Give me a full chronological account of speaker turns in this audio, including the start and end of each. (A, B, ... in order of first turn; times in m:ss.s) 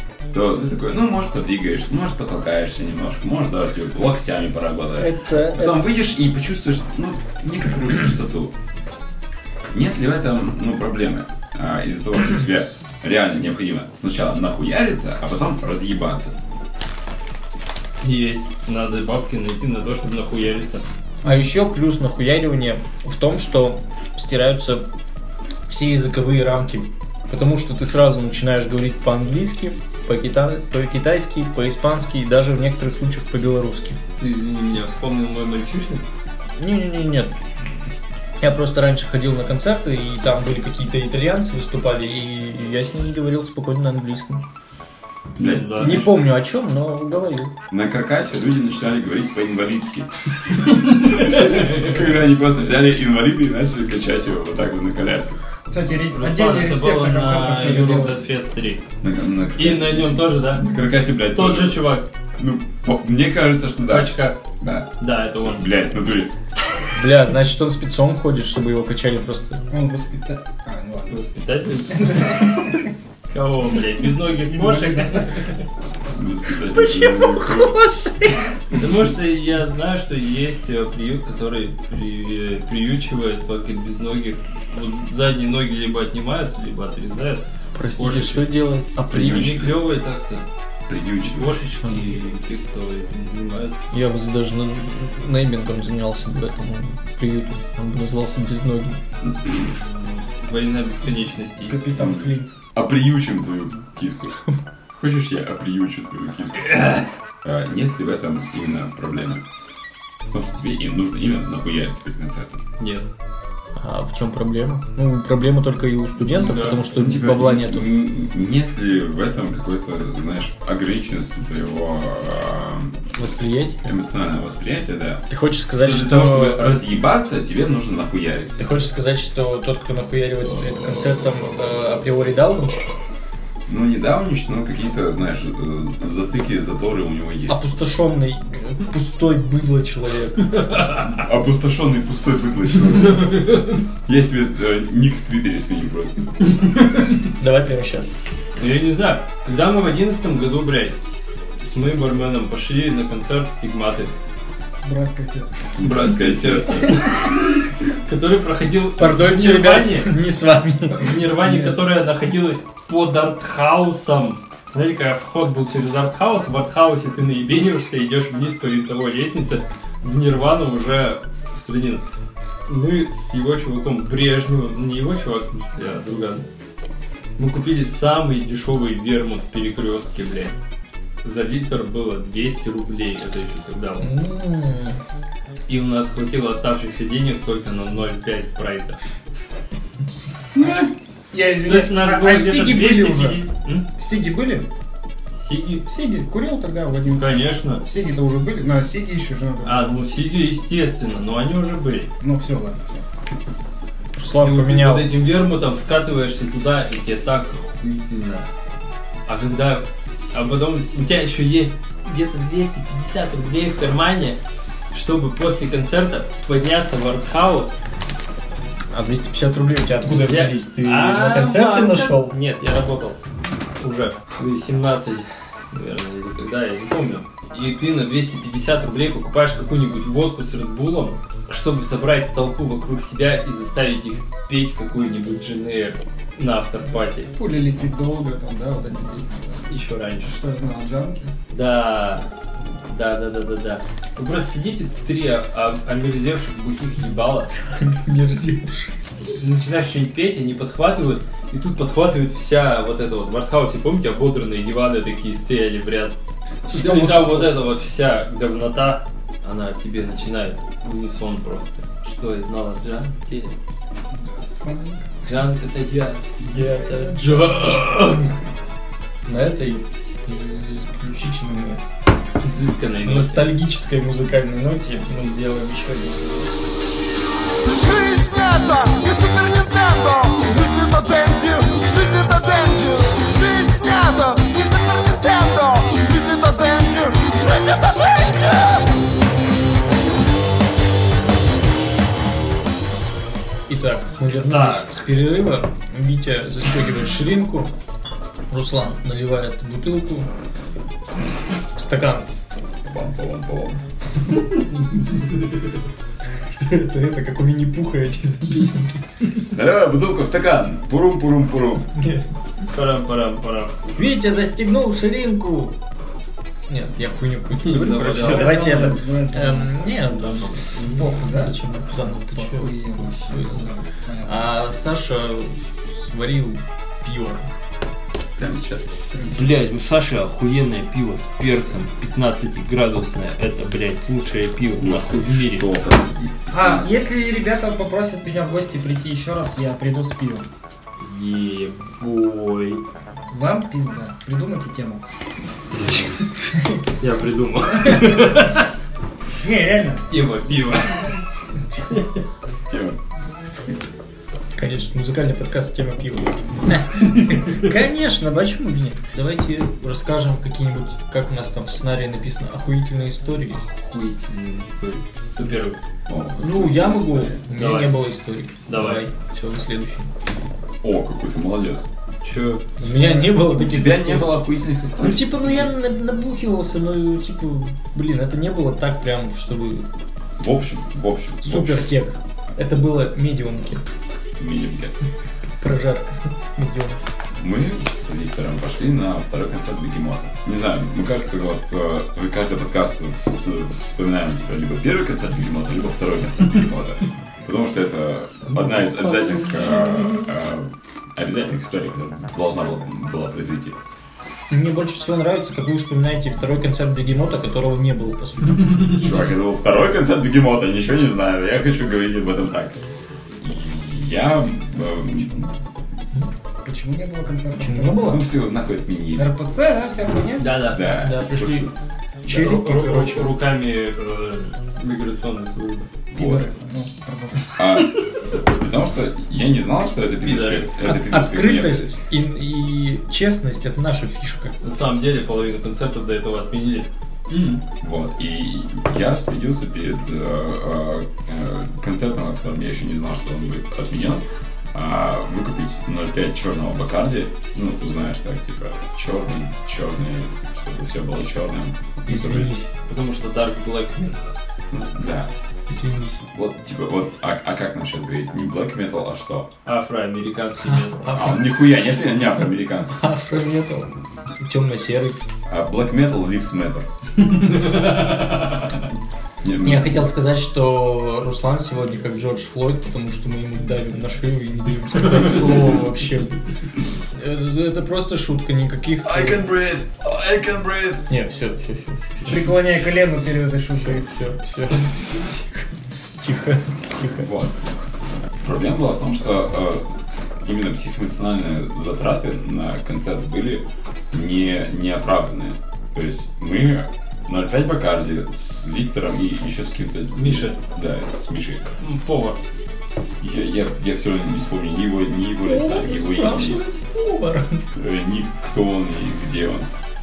0:00.3-0:08.5 A
0:05.0-0:05.8 B
0:09.7-0:16.4 A
0:18.0-0:20.8 C
0:21.2-0:24.8 B
0:25.7-0:34.0 B
0:34.2-0:36.0 C
0:36.6-0:37.3 B
0:38.4-0:44.4 B
0:45.4-0:46.0 A
0:45.4-0:46.1 C
0:45.8-0:47.5 B
0:47.7-0:55.4 A
0:55.7-0:58.2 D
0:56.1-0:58.8 C
0:59.0-1:01.8 A
0:59.6-1:00.7 C
1:01.3-1:02.0 C
1:02.4-1:06.3 A
1:03.9-1:04.4 C
1:05.0-1:05.7 C
1:06.9-1:09.6 B
1:09.7-1:11.2 D
1:11.1-1:12.5 C
1:11.9-1:12.9 D
1:13.3-1:15.6 C
1:14.5-1:15.3 D
1:16.1-1:17.8 A
1:16.7-1:18.5 B
1:18.8-1:27.5 C
1:27.8-1:29.5 B
1:28.0-1:28.5 C
1:29.1-1:29.8 A
1:29.1-1:30.5 C
1:30.9-1:31.6 A
1:31.2-1:33.9 C
1:31.8-1:32.2 B
1:33.9-1:39.0 B
1:39.2-1:39.6 A
1:39.7-1:41.8 C
1:41.6-1:42.5 D
1:42.0-1:44.4 A
1:45.0-1:46.8 A
1:46.8-1:47.0 C
1:47.4-1:49.4 A
1:50.3-1:52.6 A
1:52.8-1:53.1 C
1:53.8-1:57.9 B
1:56.3-1:56.8 C
1:56.8-2:03.0 A
2:03.2-2:03.8 B
2:03.8-2:05.2 A
2:05.3-2:06.8 B
2:05.8-2:08.6 A
2:08.6-2:12.9 B
2:13.7-2:17.7 A
2:17.5-2:20.6 B
2:20.7-2:21.0 C
2:21.1-2:26.3 A
2:23.2-2:23.8 C
2:27.2-2:28.1 B
2:28.6-2:31.0 C
2:31.6-2:34.1 C
2:34.8-2:35.7 D
2:35.8-2:37.1 A
2:36.3-2:37.4 C
2:38.0-2:40.1 C
2:39.0-2:41.1 B
2:40.9-2:52.0 C
2:41.4-2:41.8 D
2:52.7-2:56.4 C
2:57.4-3:00.5 C
3:01.2-3:04.1 C
3:04.0-3:05.0 B
3:05.7-3:09.0 C
3:11.3-3:13.4 D
3:11.6-3:13.9 C
3:14.0-3:14.7 D
3:15.3-3:15.9 C
3:15.9-3:20.0 D
3:17.1-3:17.8 C
3:19.6-3:22.1 C
3:22.2-3:23.0 D
3:24.2-3:25.1 B
3:24.4-3:28.5 C
3:29.3-3:34.4 C
3:34.9-3:37.8 C
3:38.9-3:42.4 B
3:40.1-3:43.3 C
3:43.8-3:57.3 C
3:57.3-3:59.7 D
3:59.7-4:00.4 C
4:00.2-4:01.3 D
4:01.5-4:02.3 C
4:02.9-4:07.5 C
4:07.7-4:09.0 B
4:09.3-4:16.2 C
4:16.7-4:17.6 B
4:16.7-4:23.6 C
4:24.1-4:25.0 D
4:25.2-4:26.3 C
4:26.4-4:27.5 D
4:26.5-4:28.3 B
4:29.3-4:31.8 B
4:32.4-4:33.5 C
4:33.0-4:36.5 B
4:37.6-4:48.8 E
4:53.7-4:57.7 B
4:54.3-4:54.9 C
4:58.5-5:00.3 B
5:01.8-5:02.3 B
5:02.8-5:03.8 A
5:06.5-5:09.0 B
5:09.5-5:11.9 A
5:12.0-5:12.2 B
5:12.7-5:13.8 C
5:14.0-5:15.8 B
5:16.7-5:23.7 B
5:17.6-5:19.0 C
5:18.1-5:19.9 D
5:20.0-5:20.9 C
5:20.7-5:21.6 D
5:22.3-5:24.4 D
5:24.2-5:27.5 B
5:28.4-5:28.9 A
5:29.3-5:35.6 C
5:34.8-5:36.9 A
5:36.5-5:40.5 D
5:41.0-5:42.8 C
5:43.3-5:45.0 D
5:47.0-5:48.7 C
5:49.4-5:51.2 D
5:50.1-5:51.2 C
5:51.7-5:52.1 C
5:52.7-5:53.0 A
5:54.6-6:03.6 B
6:03.5-6:05.8 C
6:06.1-6:07.4 A
6:06.4-6:10.1 B
6:07.6-6:08.0 C
6:08.7-6:09.0 C
6:10.8-6:11.9 A
6:12.2-6:13.1 C
6:12.8-6:14.4 B
6:13.2-6:15.7 A
6:15.0-6:19.9 B
6:20.4-6:21.9 A
6:21.4-6:23.8 B
6:24.4-6:24.9 A
6:25.6-6:27.0 B
6:27.4-6:43.8 A
6:39.1-6:40.2 C
6:44.5-6:49.1 B
6:48.9-6:52.8 A
6:53.4-6:55.5 A
6:56.6-6:58.1 D
6:57.6-6:58.2 B
6:58.0-6:59.3 A
6:59.2-7:00.5 D
7:00.4-7:00.8 C
7:00.7-7:01.7 A
7:00.8-7:01.7 B
7:02.2-7:03.3 B
7:02.2-7:05.9 C
7:06.1-7:06.5 A
7:06.2-7:07.6 D
7:07.6-7:12.0 A
7:10.2-7:10.7 C
7:10.9-7:14.5 B
7:14.6-7:17.6 C
7:17.8-7:24.2 A
7:24.7-7:32.6 A
7:32.1-7:32.7 B
7:32.9-7:34.3 C
7:34.7-7:35.3 A
7:35.7-7:36.2 B
7:36.3-7:39.5 A
7:39.7-7:41.1 C
7:41.0-7:41.4 B
7:41.1-7:43.0 A
7:42.9-7:45.2 B
7:45.5-7:46.9 A
7:47.3-7:48.6 C
7:49.4-7:50.0 A
7:49.6-7:56.4 B
7:57.1-7:59.4 B
7:59.0-8:01.0 A
8:01.1-8:02.5 B
8:02.3-8:04.1 D
8:03.8-8:05.7 B
8:06.2-8:07.3 B
8:07.2-8:07.5 A
8:08.4-8:21.7 A
8:20.2-8:20.6 C
8:21.8-8:22.4 C
8:23.2-8:26.6 A
8:25.4-8:27.7 B
8:27.7-8:29.7 A